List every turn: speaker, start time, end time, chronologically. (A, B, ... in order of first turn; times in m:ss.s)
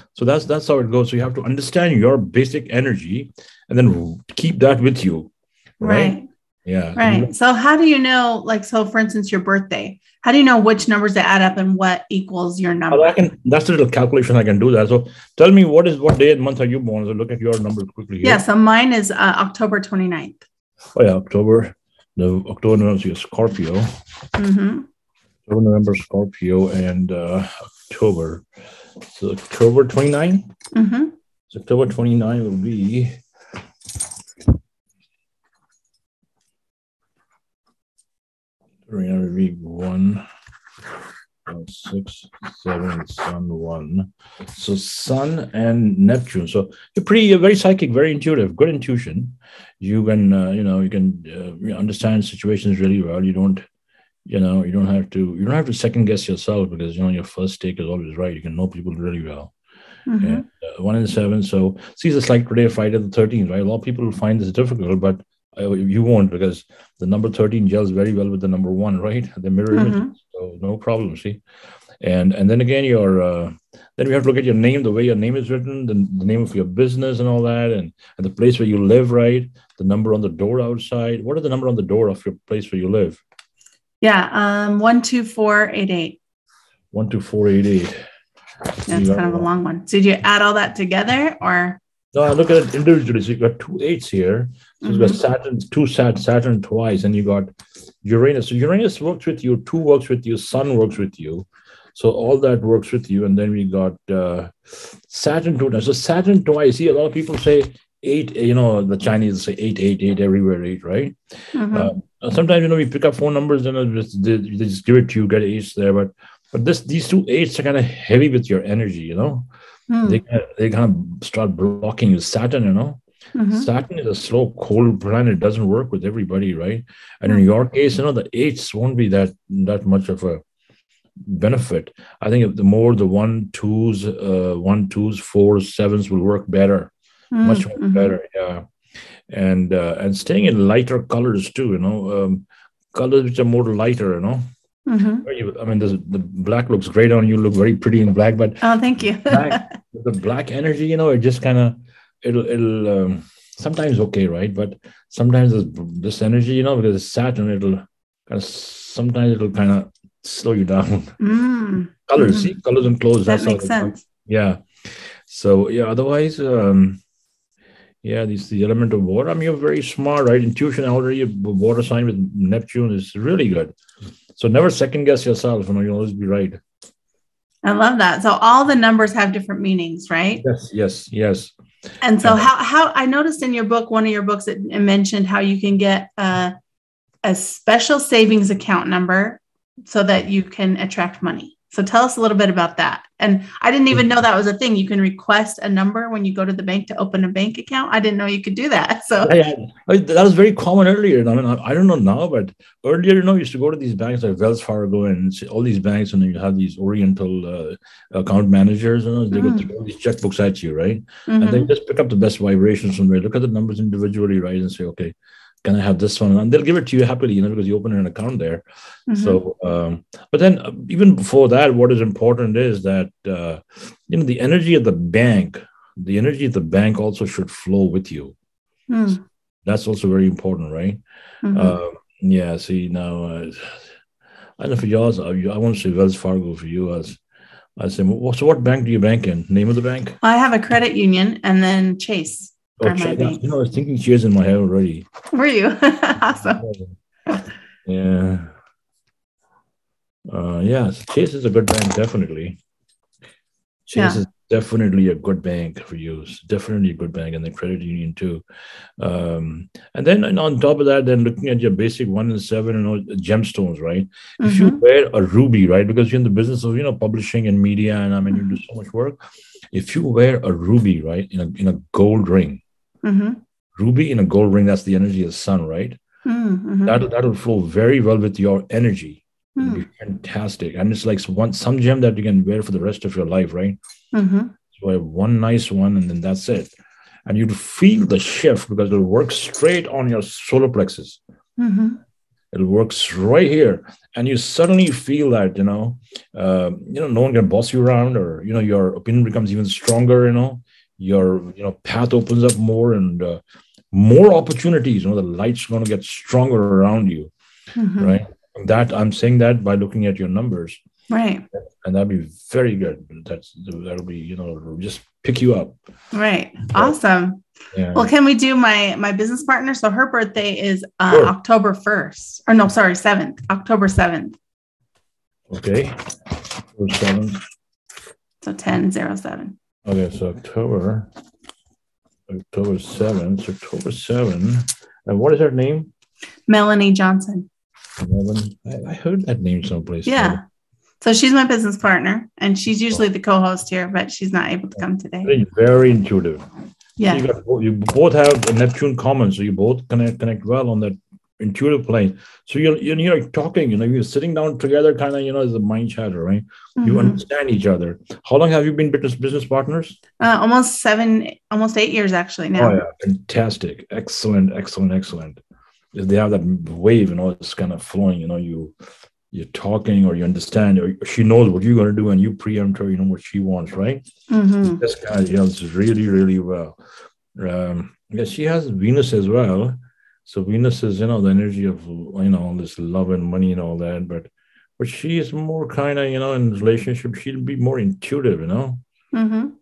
0:00.2-0:07.3 A
0:05.8-0:06.3 B
0:07.0-0:13.2 B
0:12.9-0:18.4 A
0:18.2-0:20.4 B
0:21.0-0:23.9 A
0:24.4-0:24.9 B
0:25.5-0:28.4 A
0:29.2-0:30.5 A
0:30.7-0:31.1 B
0:31.5-0:33.2 A
0:38.9-0:40.2 A
0:41.5-0:53.6 A
0:54.3-0:59.5 A
1:00.1-1:00.4 B
1:00.2-1:11.4 A
1:09.7-1:10.1 B
1:12.0-1:23.2 A
1:24.0-1:26.2 B
1:26.9-1:28.0 A
1:28.9-1:29.5 A
1:28.9-1:31.8 B
1:32.1-1:37.5 A
1:34.8-1:35.2 B
1:38.0-1:51.2 A
1:51.5-1:51.9 B
1:51.7-1:59.5 A
1:59.9-2:00.2 B
2:00.0-2:10.4 A
2:03.3-2:03.7 B
2:11.2-2:18.6 A
2:17.3-2:18.1 B
2:19.3-2:24.4 A
2:24.9-2:25.3 B
2:25.2-2:28.6 A
2:28.6-2:29.7 B
2:29.2-2:41.2 A
2:41.2-2:42.5 B
2:42.1-2:47.0 A
2:43.3-2:44.0 B
2:48.0-2:53.8 A
2:54.4-2:56.6 A
2:57.6-3:00.4 B
3:00.4-3:01.5 A
3:02.0-3:06.5 B
3:02.2-3:02.5 A
3:07.2-3:19.4 B
3:19.2-3:48.4 A
3:29.3-3:29.7 B
3:31.3-3:31.7 B
3:39.1-3:39.4 B
3:48.9-3:49.2 B
3:49.6-3:53.8 A
3:51.4-3:51.8 B
3:54.6-3:57.2 A
3:57.8-4:00.2 A
4:00.2-4:03.4 B
4:02.8-4:05.1 A
4:05.3-4:06.6 B
4:06.3-4:07.0 A
4:07.9-4:08.5 A
4:10.3-4:12.6 A
4:13.9-4:18.4 A
4:13.9-4:14.2 B
4:19.0-4:29.2 A
4:24.4-4:24.8 B
4:28.3-4:28.6 B
4:29.7-4:32.6 A
4:33.0-4:33.4 B
4:33.8-4:36.0 A
4:36.2-4:37.0 B
4:36.8-4:43.8 A
4:39.6-4:39.8 B
4:44.1-4:44.5 B
4:44.7-4:46.7 A
4:47.3-4:51.2 A
4:51.6-4:52.0 B
4:52.5-5:03.4 A
5:03.9-5:07.3 A
5:07.8-5:08.2 B
5:08.0-5:10.8 A
5:11.1-5:11.5 B
5:11.6-5:15.8 A
5:16.1-5:24.4 B
5:17.7-5:18.1 A
5:21.1-5:21.4 A
5:25.5-5:26.1 A
5:26.8-5:27.4 A
5:28.4-5:29.6 B
5:29.9-5:31.1 A
5:32.3-5:35.9 A
5:36.5-5:37.5 B
5:38.0-5:40.4 A
5:40.0-5:40.4 B
5:41.0-5:45.4 B
5:44.8-5:46.5 A
5:47.0-5:47.3 B
5:47.1-6:00.0 A
5:56.8-5:57.2 B
6:00.2-6:02.8 B
6:02.5-6:05.4 A
6:05.9-6:08.7 A
6:09.3-6:14.0 A
6:14.3-6:14.8 B
6:14.6-6:16.8 A
6:17.4-6:28.8 A
6:29.1-6:29.5 B